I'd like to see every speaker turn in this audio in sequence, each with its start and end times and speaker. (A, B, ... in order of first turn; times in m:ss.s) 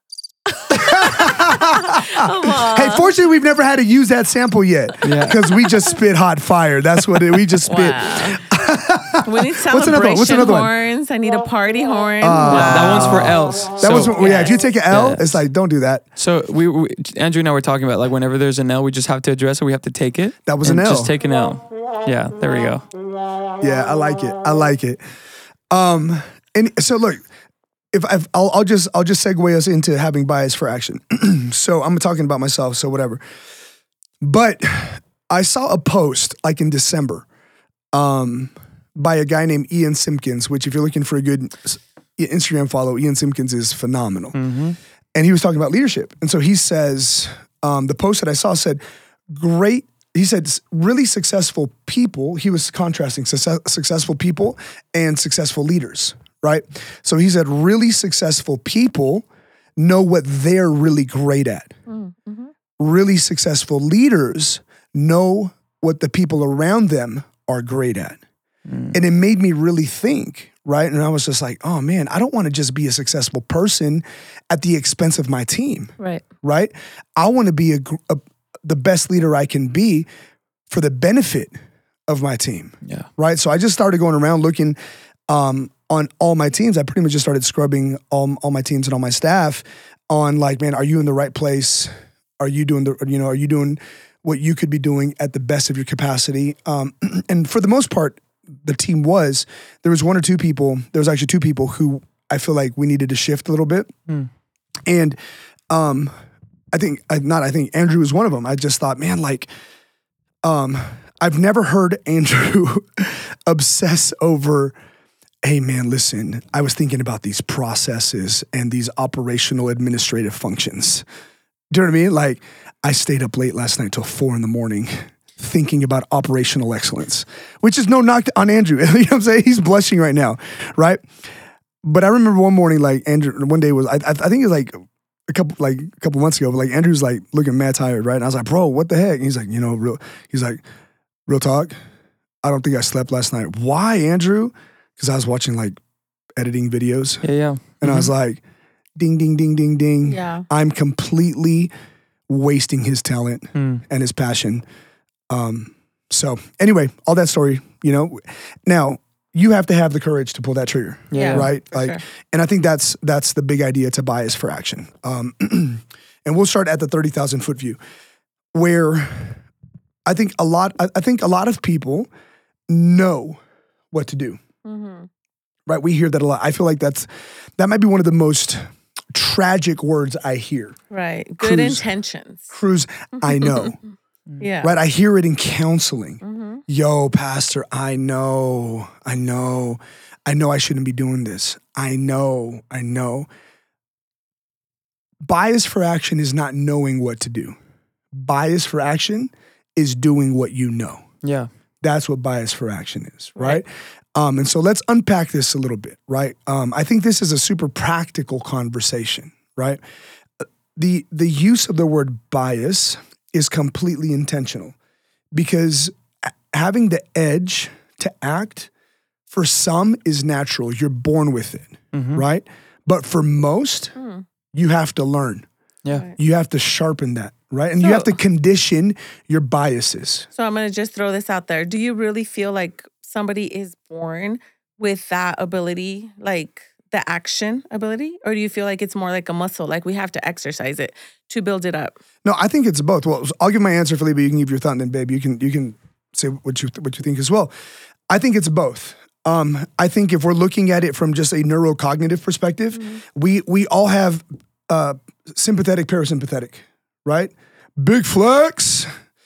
0:00.5-0:03.1 A
0:00.7-0:10.7 B
0:05.0-0:05.4 C
0:05.1-0:05.7 A
0:07.6-0:08.5 A
0:09.2-0:13.3 A
0:12.2-0:16.0 B
0:12.5-0:15.4 C
0:13.9-0:14.6 A
0:16.2-0:22.9 C
0:20.5-0:21.1 B
0:23.6-0:25.0 B
0:25.7-0:27.2 B
0:27.9-0:33.2 B
0:34.2-0:37.2 B
0:37.9-0:44.4 B
0:44.4-0:44.8 C
0:45.2-0:59.2 B
0:59.8-1:01.7 B
1:01.9-1:02.5 A
1:02.8-1:08.2 B
1:08.7-1:09.0 C
1:08.9-1:20.1 B
1:20.7-1:21.6 B
1:22.1-1:24.8 B
1:25.3-1:43.9 B
1:44.9-1:45.2 B
1:45.7-1:46.1 B
1:46.7-1:49.5 B
1:50.4-1:54.8 B
1:55.4-2:01.0 B
2:01.7-2:11.0 B
2:11.8-2:14.8 B
2:15.3-2:20.6 B
2:21.3-2:21.8 B
2:22.4-2:25.8 B
2:26.4-2:27.2 B
2:27.2-2:28.1 C
2:27.8-2:28.4 B
2:29.0-2:31.7 B
2:30.1-2:30.5 A
2:32.3-2:34.6 B
2:33.6-2:33.8 C
2:35.3-2:47.8 B
2:41.1-2:41.5 C
2:41.1-2:42.0 A
2:48.5-2:49.4 B
2:50.1-2:52.1 B
2:52.7-2:53.4 B
2:53.9-2:54.4 B
2:54.6-2:55.1 A
2:55.7-2:58.6 B
2:59.1-3:00.8 B
3:00.9-3:02.5 A
3:01.4-3:01.9 B
3:02.5-3:03.8 B
3:03.2-3:03.7 A
3:04.4-3:04.7 A
3:04.6-3:13.3 B
3:06.2-3:06.6 A
3:15.2-3:17.6 B
3:18.1-3:21.0 B
3:21.2-3:21.5 C
3:21.8-3:29.8 B
3:23.4-3:23.6 A
3:30.8-3:34.8 B
3:35.3-3:38.7 B
3:39.3-3:43.9 B
3:41.9-3:42.2 C
3:44.0-3:44.2 A
3:44.5-3:45.5 B
3:45.9-3:46.2 A
3:46.2-3:50.3 B
3:47.8-3:48.2 A
3:50.3-4:02.0 A
4:02.2-4:07.5 B
4:08.1-4:18.9 B
4:12.8-4:13.0 A